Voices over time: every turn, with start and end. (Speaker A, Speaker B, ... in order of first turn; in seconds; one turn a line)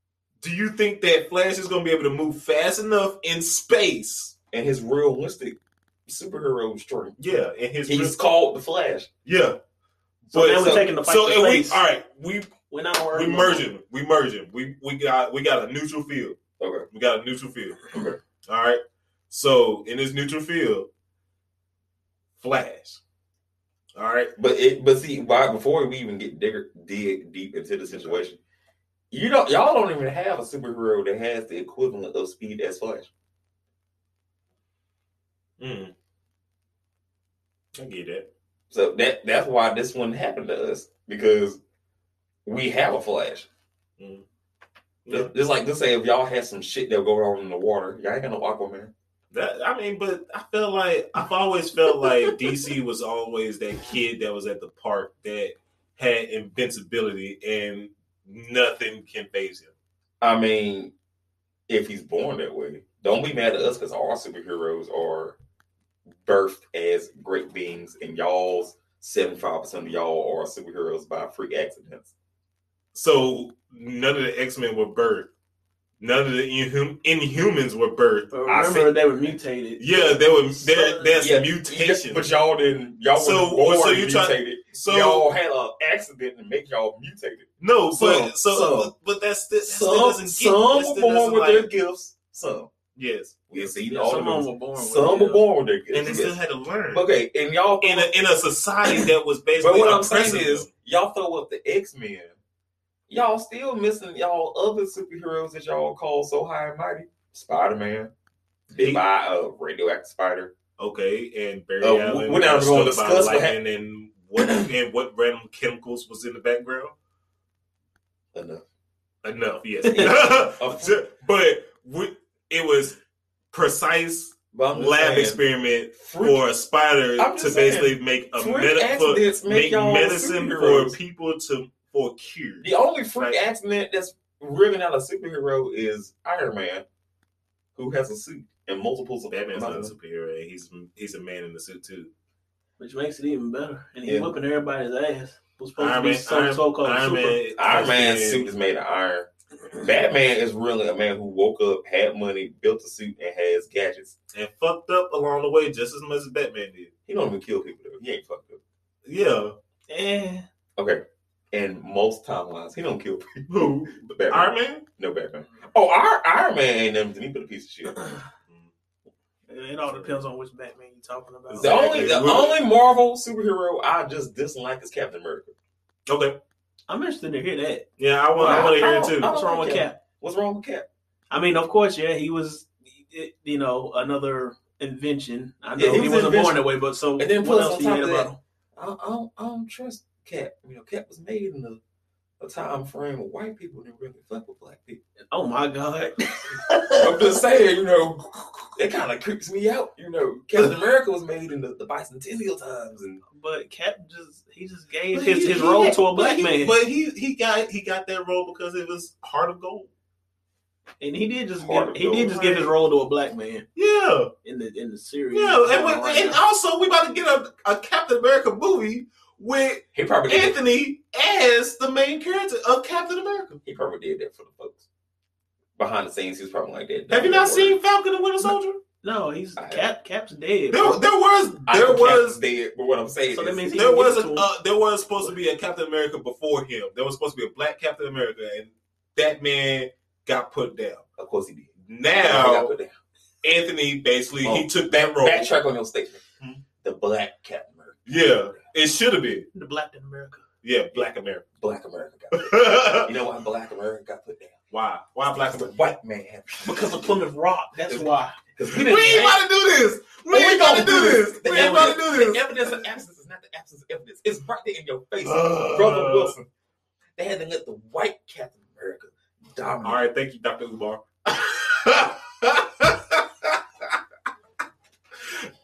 Speaker A: 0.4-4.3
Speaker B: 4.5-7.2
Speaker A: 7.2-8.2
Speaker B: 7.9-9.1
Speaker A: 9.2-9.6
Speaker B: 10.3-10.9
Speaker C: 10.3-11.8
Speaker A: 11.0-12.5
Speaker C: 12.7-13.6
Speaker A: 13.1-16.4
Speaker B: 16.6-16.9
Speaker A: 16.9-17.9
Speaker B: 17.9-18.2
Speaker A: 18.4-20.9
Speaker A: 22.4-23.0
Speaker A: 24.0-24.3
Speaker B: 24.4-28.4
Speaker A: 27.9-28.2
Speaker B: 29.1-33.1
Speaker A: 35.6-35.9
Speaker A: 37.8-38.3
Speaker B: 38.7-41.6
Speaker B: 42.5-43.5
Speaker A: 44.0-44.2
Speaker A: 45.0-45.3
Speaker B: 45.1-48.9
Speaker A: 49.3-59.7
Speaker B: 60.2-60.9
Speaker B: 61.7-65.4
Speaker B: 66.2-72.1
Speaker A: 72.9-75.3
Speaker A: 76.0-78.3
Speaker C: 78.3-81.2
Speaker B: 78.5-78.9
Speaker A: 79.8-82.3
Speaker B: 81.2-88.9
Speaker A: 83.2-85.3
Speaker A: 87.6-91.7
Speaker B: 89.6-92.7
Speaker A: 93.0-93.7
Speaker B: 93.5-96.3
Speaker C: 93.6-95.4
Speaker A: 95.9-97.0
Speaker B: 96.9-98.1
Speaker A: 97.8-100.7
Speaker B: 99.6-102.4
Speaker B: 103.1-108.1
Speaker B: 108.7-110.5
Speaker A: 108.7-109.0
Speaker A: 110.8-116.9
Speaker B: 111.8-113.6
Speaker B: 118.3-118.7
Speaker A: 119.2-123.0
Speaker C: 119.8-120.1
Speaker B: 120.0-121.0
Speaker A: 123.5-133.4
Speaker B: 124.5-125.4
Speaker B: 126.0-126.4
Speaker B: 127.2-131.0
Speaker B: 132.6-136.8
Speaker B: 137.8-139.9
Speaker A: 139.3-142.1
Speaker C: 142.8-147.4
Speaker B: 144.1-144.3
Speaker A: 145.8-148.5
Speaker B: 147.6-154.2
Speaker A: 154.3-156.9
Speaker B: 157.1-158.6
Speaker A: 159.1-159.6
Speaker C: 159.9-160.4
Speaker B: 160.8-168.2
Speaker A: 163.5-164.9
Speaker C: 169.5-171.8
Speaker A: 169.9-170.2
Speaker B: 171.5-175.5
Speaker A: 171.6-172.6
Speaker A: 176.1-176.4
Speaker C: 176.9-177.9
Speaker A: 178.0-179.3
Speaker B: 178.4-180.9
Speaker C: 178.4-180.0
Speaker C: 181.3-188.4
Speaker B: 185.8-186.6
Speaker B: 187.2-191.8
Speaker B: 192.4-195.0
Speaker C: 195.3-197.3
Speaker B: 197.0-203.2
Speaker C: 203.3-206.7
Speaker A: 205.1-209.9
Speaker C: 211.0-213.7
Speaker B: 211.6-212.7
Speaker A: 213.8-214.3
Speaker C: 214.4-216.4
Speaker A: 215.3-223.6
Speaker B: 219.9-220.6
Speaker B: 223.7-224.8
Speaker B: 225.8-227.8
Speaker A: 227.1-228.8
Speaker C: 229.0-231.0
Speaker B: 229.6-229.8
Speaker A: 230.7-232.4
Speaker B: 231.7-233.7
Speaker C: 233.3-234.5
Speaker A: 233.7-241.0
Speaker B: 241.2-242.9
Speaker A: 241.9-242.7
Speaker A: 243.4-245.5
Speaker B: 244.4-246.2
Speaker B: 246.8-248.3
Speaker A: 248.1-249.5
Speaker C: 249.5-250.4
Speaker A: 250.6-251.4
Speaker B: 250.9-254.6
Speaker A: 252.3-253.1
Speaker A: 254.7-255.7
Speaker B: 255.5-257.1
Speaker C: 256.6-258.4
Speaker B: 257.9-259.4
Speaker A: 258.6-262.8
Speaker B: 260.3-266.5
Speaker C: 261.5-262.0
Speaker A: 265.2-266.3
Speaker B: 267.2-270.0
Speaker A: 269.8-273.6